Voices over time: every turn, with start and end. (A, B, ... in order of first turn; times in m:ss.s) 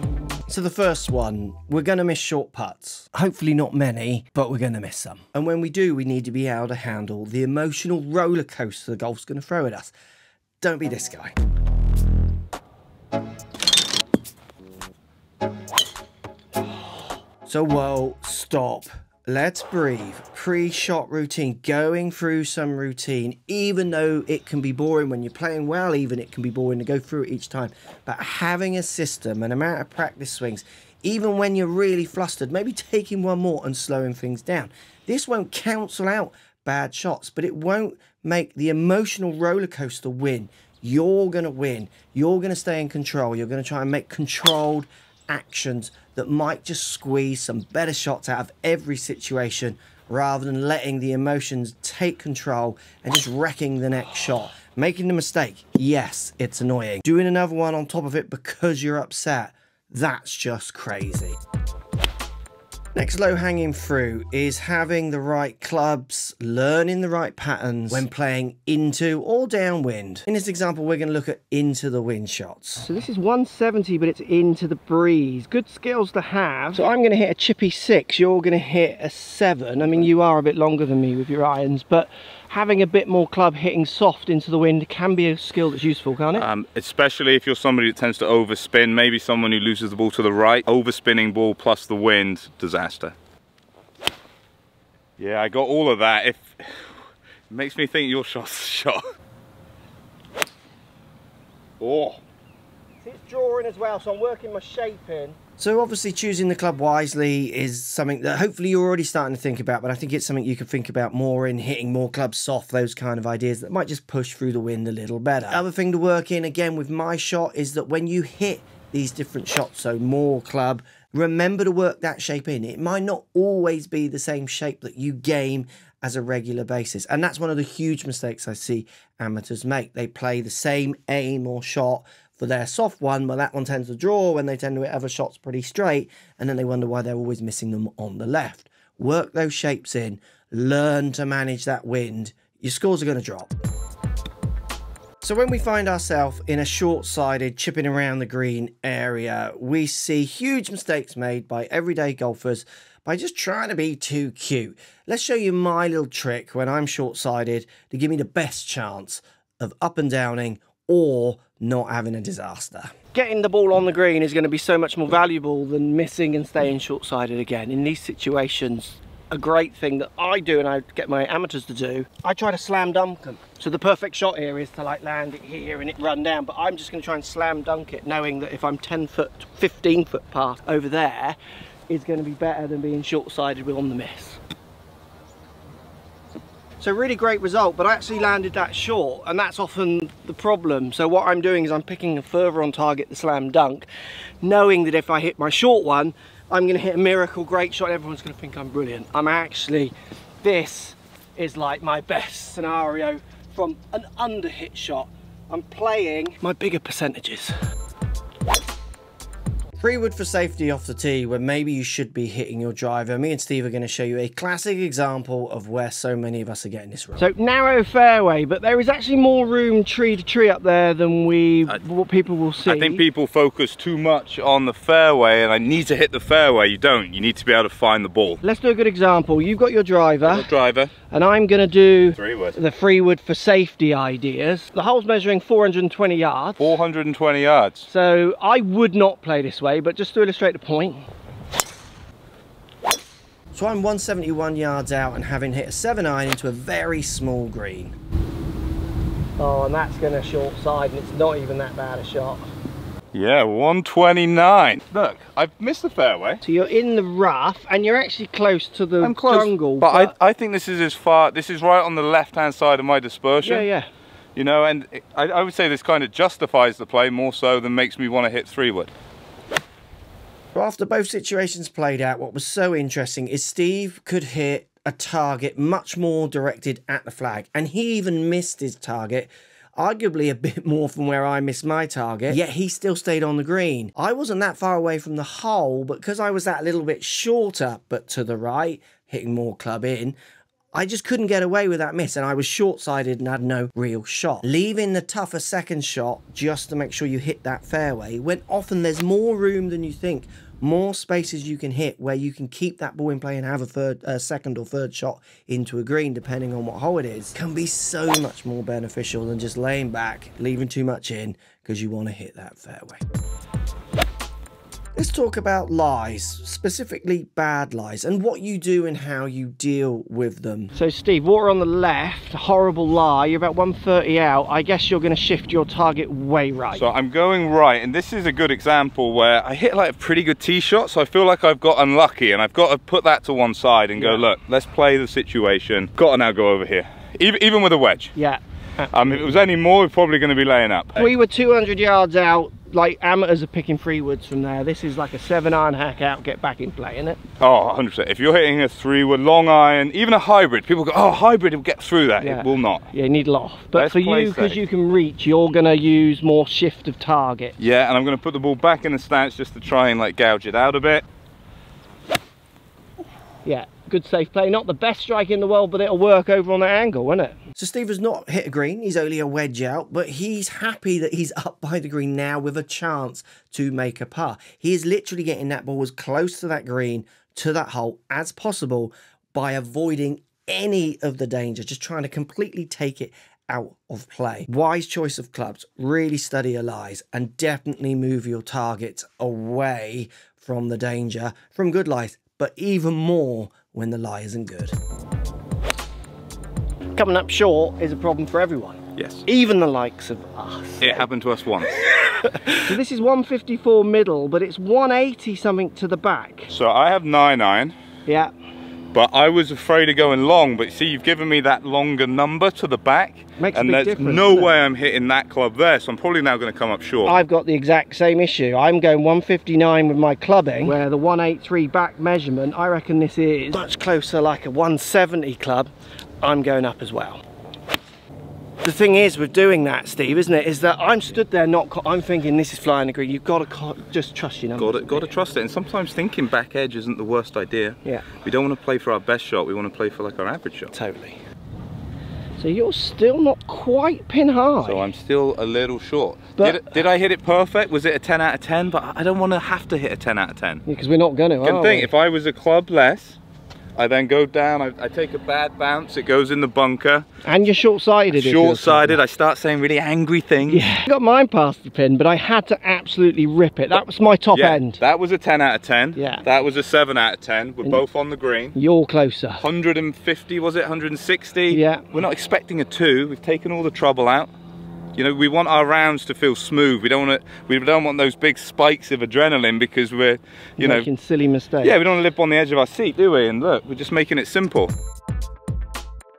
0:00.5-0:09.9 A
0:10.6-0:11.3 A
0:17.4-1:01.4 A
1:02.9-1:12.9 A
1:12.9-1:26.4 B
1:26.3-1:33.1 C
1:35.2-1:36.9 C
1:37.5-1:39.0 C
1:41.8-1:42.2 C
1:43.0-1:45.4 B
1:45.5-2:23.5 A
2:25.2-2:43.0 A
2:43.1-3:01.4 B
3:01.9-3:04.4 B
3:06.8-3:13.8 B
3:14.4-3:27.5 B
3:29.8-3:37.3 A
3:37.2-3:43.0 B
3:42.6-3:48.4 C
3:48.4-3:50.5 B
3:50.2-3:50.9 C
3:51.1-3:56.7 B
3:52.2-3:52.6 C
3:56.6-3:57.9 C
3:57.9-4:01.1 B
4:03.5-4:07.9 A
4:09.4-4:12.5 B
4:13.1-4:16.4 C
4:16.4-4:20.1 B
4:19.0-4:23.7 C
4:23.4-4:23.9 B
4:24.4-4:28.9 C
4:30.5-4:50.2 A
4:50.7-5:13.0 A
5:14.9-5:20.8 A
5:20.8-5:26.8 B
5:26.7-5:38.1 C
5:34.0-5:34.2 B
5:38.1-5:39.2 B
5:38.9-5:41.1 C
5:41.0-5:47.2 B
5:47.4-5:52.9 C
5:52.2-5:57.5 B
5:53.7-5:54.6 C
5:57.6-6:01.0 C
6:03.4-6:07.4 B
6:07.5-6:34.8 A
6:36.9-6:41.0 B
6:39.0-6:39.2 C
6:40.8-6:41.8 C
6:42.6-6:46.5 B
6:46.5-6:47.7 C
6:48.0-6:48.3 B
6:48.9-6:57.2 C
6:53.4-6:54.5 B
6:57.0-7:03.6 B
7:03.5-7:04.8 A
7:04.5-7:05.7 B
7:06.2-7:07.2 B
7:08.6-7:11.0 A
7:10.2-7:12.6 B
7:12.6-7:13.8 A
7:13.1-7:15.0 B
7:14.6-7:20.7 C
7:20.8-7:21.1 B
7:22.4-7:24.9 B
7:24.6-7:30.6 C
7:26.4-7:26.6 B
7:30.7-7:31.9 B
7:31.4-7:33.2 C
7:33.8-7:37.1 C
7:37.2-7:38.9 B
7:38.1-7:40.7 C
7:40.5-7:44.8 B
7:44.3-7:48.6 C
7:46.0-7:46.2 B
7:48.5-7:49.4 B
7:49.4-7:54.3 C
7:51.5-7:51.9 B
7:55.0-8:00.9 C
8:00.6-8:01.7 B
8:01.6-8:04.7 C